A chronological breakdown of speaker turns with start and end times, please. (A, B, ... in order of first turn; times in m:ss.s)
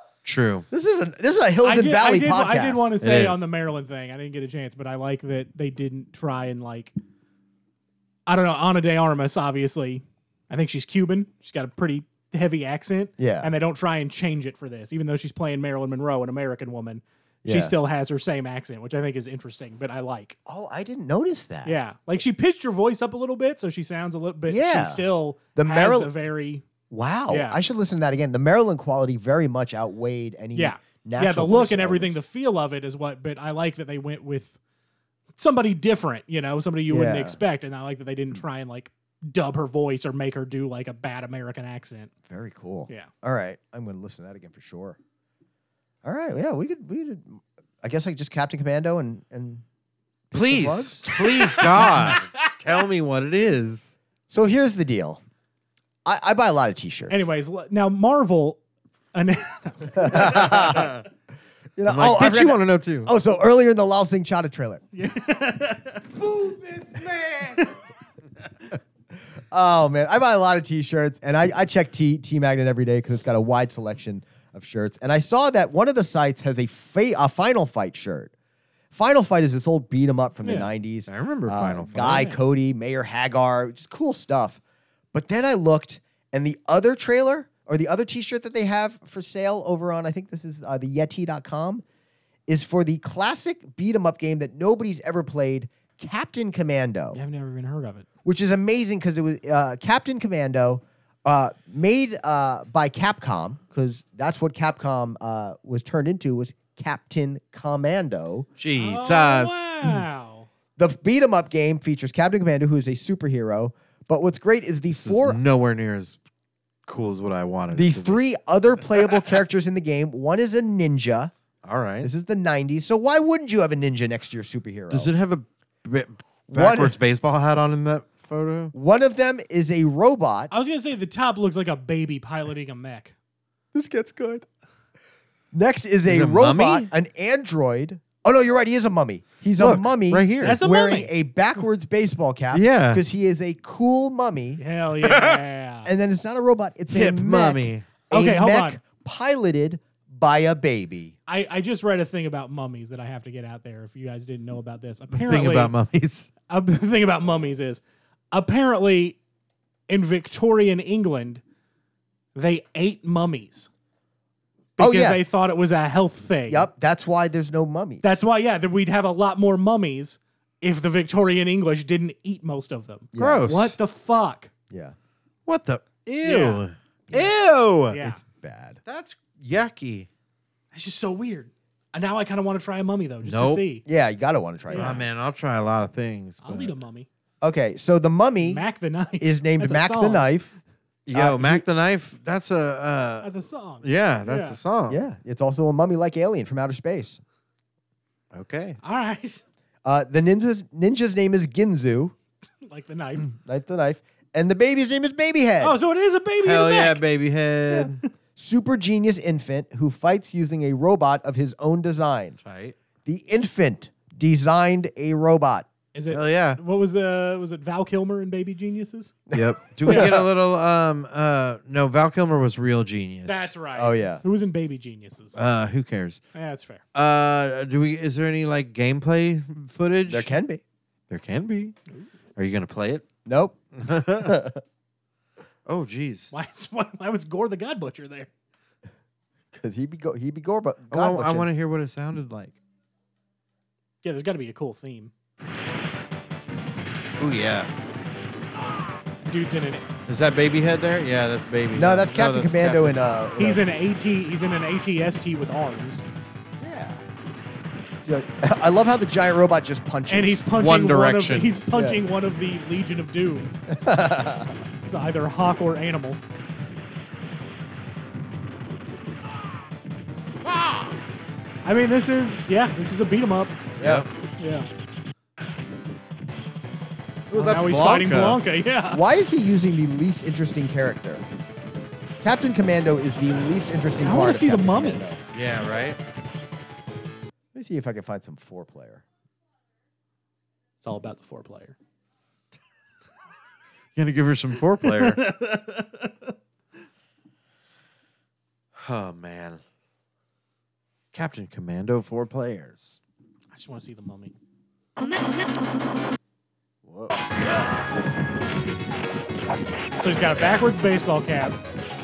0:00.2-0:00.7 A
0:00.7-0:02.9 B
0:01.6-0:06.9 C
0:03.0-0:03.5 A
0:08.2-0:20.4 C
0:13.2-0:13.5 B
0:17.4-0:17.7 B
0:20.4-0:21.8 B
0:21.6-0:26.6 C
0:24.5-0:25.0 B
0:25.5-0:26.1 B
0:26.9-0:32.2 B
0:27.3-0:27.6 C
0:30.5-0:34.6 C
0:35.4-0:42.1 C
0:36.9-0:37.4 B
0:42.3-0:45.0 B
0:46.0-0:49.6 B
0:50.3-0:51.9 B
0:50.3-0:53.9 A
0:51.1-0:52.5 C
0:54.3-0:55.2 B
0:56.0-0:57.3 B
0:57.1-0:58.6 C
0:59.1-1:00.8 C
0:59.9-1:01.0 B
1:00.5-1:01.0 A
1:01.8-1:04.8 B
1:01.9-1:03.1 A
1:04.9-1:06.1 C
1:06.2-1:07.7 B
1:07.5-1:07.8 C
1:09.5-1:18.3 B
1:18.9-1:24.6 B
1:20.4-1:20.7 C
1:21.1-1:22.3 A
1:22.1-1:22.4 C
1:25.1-1:31.8 B
1:32.5-1:37.2 B
1:37.1-1:38.0 C
1:38.2-1:48.5 B
1:48.6-1:49.6 A
1:48.8-1:50.5 C
1:50.8-1:55.4 B
1:55.0-1:56.2 A
1:56.8-1:58.2 A
1:57.7-2:01.3 B
2:01.6-2:02.1 A
2:02.0-2:05.1 B
2:04.9-2:08.7 A
2:06.5-2:06.9 B
2:08.7-2:10.5 B
2:10.5-2:13.1 C
2:13.7-2:14.4 B
2:15.5-2:24.6 B
2:16.1-2:16.9 A
2:19.6-2:20.6 A
2:20.4-2:21.1 C
2:22.5-2:23.0 A
2:24.6-2:25.9 C
2:25.0-2:25.4 A
2:25.8-2:31.2 B
2:26.9-2:27.9 A
2:28.1-2:28.8 C
2:31.3-2:35.7 C
2:35.1-2:36.3 A
2:36.5-2:39.2 C
2:39.9-2:41.4 C
2:42.3-2:43.7 C
2:44.8-2:46.7 C
2:44.8-2:45.2 B
2:46.5-2:48.2 B
2:48.0-2:54.5 C
2:53.1-2:53.4 B
2:53.2-2:53.8 A
2:54.7-2:54.9 B
2:55.5-2:58.0 A
2:56.2-2:56.6 C
2:57.9-2:58.2 C
2:58.0-2:58.8 B
2:58.8-3:00.1 A
3:00.7-3:03.8 C
3:03.2-3:03.6 A
3:03.8-3:05.0 B
3:04.7-3:05.0 C
3:04.7-3:06.7 A
3:06.4-3:07.1 C
3:07.4-3:08.6 B
3:08.4-3:10.3 C
3:09.2-3:10.5 B
3:11.0-3:15.0 A
3:11.1-3:11.6 B
3:13.2-3:14.6 C
3:14.9-3:17.2 B
3:18.3-3:18.8 A
3:18.8-3:19.4 C
3:19.8-3:22.1 B
3:22.6-3:23.3 C
3:23.2-3:25.8 B
3:25.6-3:27.0 C
3:26.4-3:28.0 A
3:28.4-3:32.4 B
3:32.4-3:32.8 A
3:33.0-3:35.7 B
3:35.9-3:39.2 C
3:36.1-3:36.6 A
3:39.3-3:40.3 B
3:39.3-3:43.5 A
3:43.2-3:45.4 C
3:43.8-3:44.2 B
3:45.3-3:46.2 A
3:46.3-3:46.8 C
3:46.9-3:50.3 A
3:50.1-3:50.6 B
3:51.1-3:51.7 A
3:52.4-3:53.1 A
3:53.2-3:54.6 B
3:53.8-3:54.4 A
3:55.6-3:56.3 A
3:56.3-3:58.3 C
3:59.5-4:01.5 B
4:00.9-4:02.6 A
4:04.0-4:05.1 C
4:07.2-4:07.7 A
4:09.2-4:09.8 C
4:10.1-4:13.0 A
4:11.7-4:13.6 B
4:13.4-4:16.0 C
4:16.6-4:17.0 B
4:18.0-4:20.5 B
4:20.1-4:23.5 C
4:20.5-4:21.6 A
4:21.7-4:22.0 B
4:23.7-4:24.6 B
4:24.9-4:26.2 C
4:30.4-4:31.0 A
4:31.6-4:33.6 C
4:33.8-4:34.1 B
4:33.8-4:34.1 A
4:34.4-4:34.7 C
4:37.3-4:38.4 A
4:37.4-4:39.0 C
4:37.4-4:38.2 B
4:38.9-4:41.2 B
4:42.2-4:45.2 B
4:44.0-4:45.0 C
4:45.3-4:46.0 A
4:47.5-4:49.0 B
4:50.8-4:51.8 C
4:54.0-4:55.2 A
4:54.8-4:56.3 C
4:58.7-4:59.6 A
5:01.1-5:03.0 A
5:03.5-5:04.3 C
5:06.8-5:07.2 A
5:10.0-5:11.6 C